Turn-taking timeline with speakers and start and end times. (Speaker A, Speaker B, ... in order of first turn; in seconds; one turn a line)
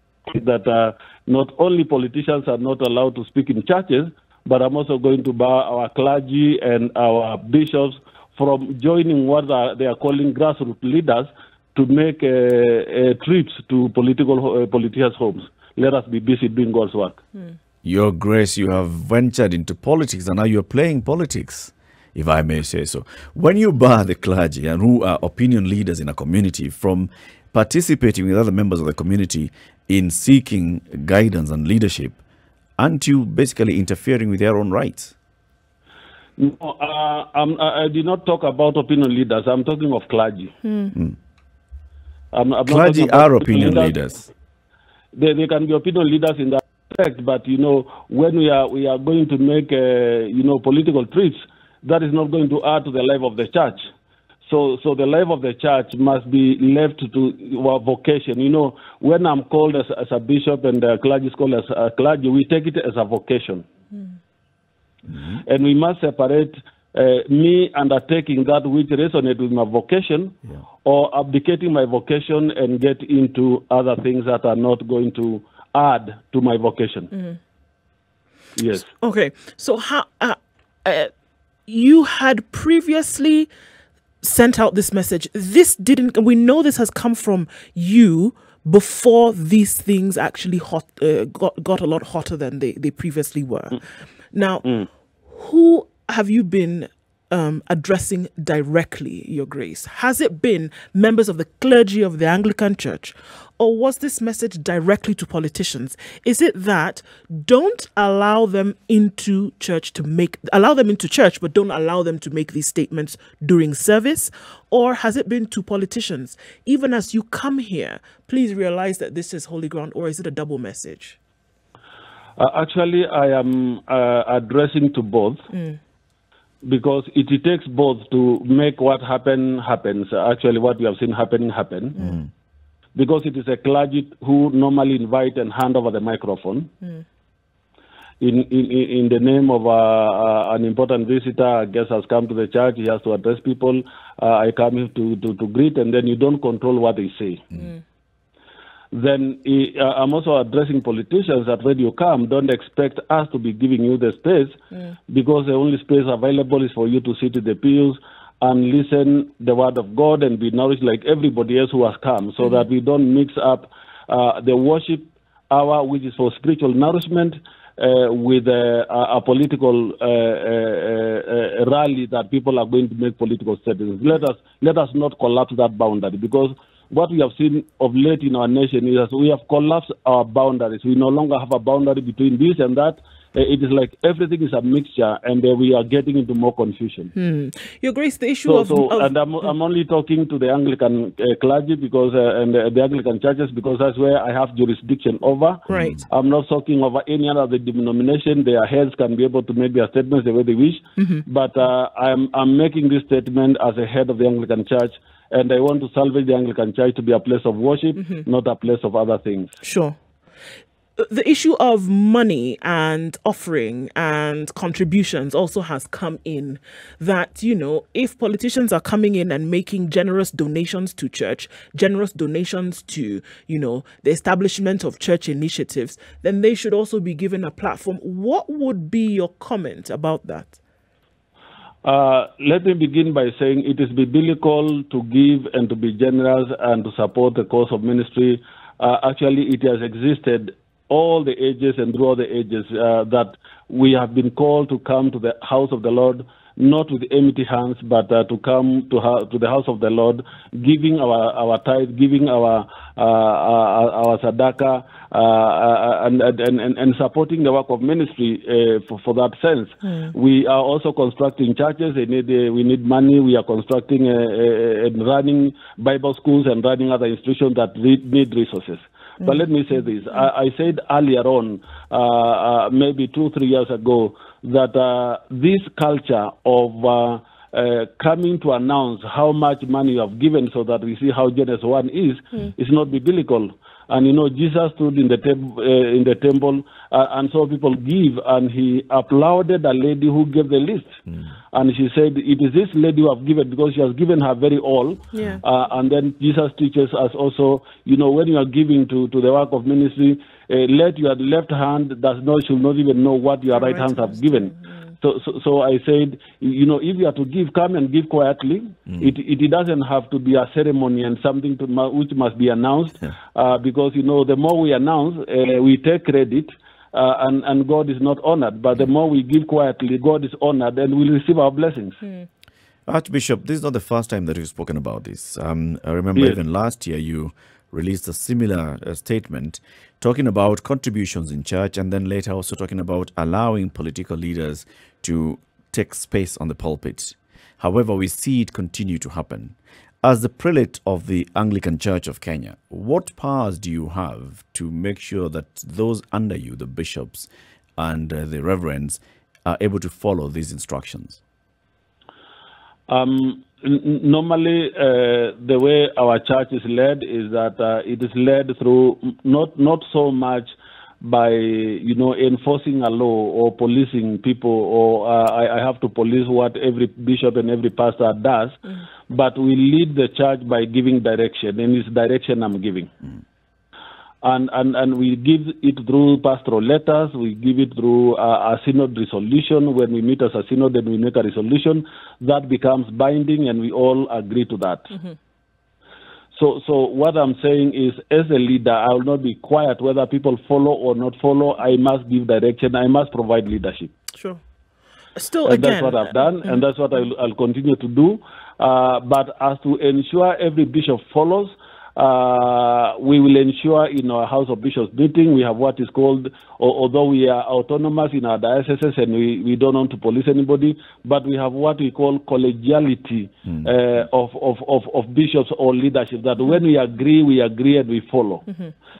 Speaker A: 0.3-17.2
Speaker B: 17.8-32.2
Speaker B: 32.8-35.1
Speaker A: 36.4-40.5
Speaker C: 40.6-40.9
Speaker A: 42.3-44.0
Speaker B: 42.7-44.2
Speaker A: 45.1-53.9
Speaker A: 54.4-63.6
Speaker A: 65.4-77.1
Speaker A: 78.5-78.9
Speaker C: 79.0-81.1
Speaker C: 81.7-83.5
Speaker C: 84.2-94.7
Speaker C: 95.3-121.2
Speaker A: 122.4-125.4
Speaker A: 126.6-132.0
Speaker A: 132.9-136.7
Speaker A: 138.2-147.6
Speaker A: 148.9-187.1
Speaker C: 187.1-189.1
Speaker A: 188.4-209.6
Speaker C: 195.7-196.0
Speaker C: 201.0-201.2
Speaker C: 209.6-209.9
Speaker C: 211.0-230.6
Speaker A: 231.8-291.0
Speaker A: 291.5-322.0
Speaker C: 295.1-295.4
Speaker C: 303.8-304.6
Speaker B: 322.9-351.2
Speaker A: 352.9-372.9
Speaker A: 374.2-384.9
Speaker A: 386.3-393.9
Speaker C: 394.1-394.4
Speaker C: 395.1-396.1
Speaker A: 395.4-418.4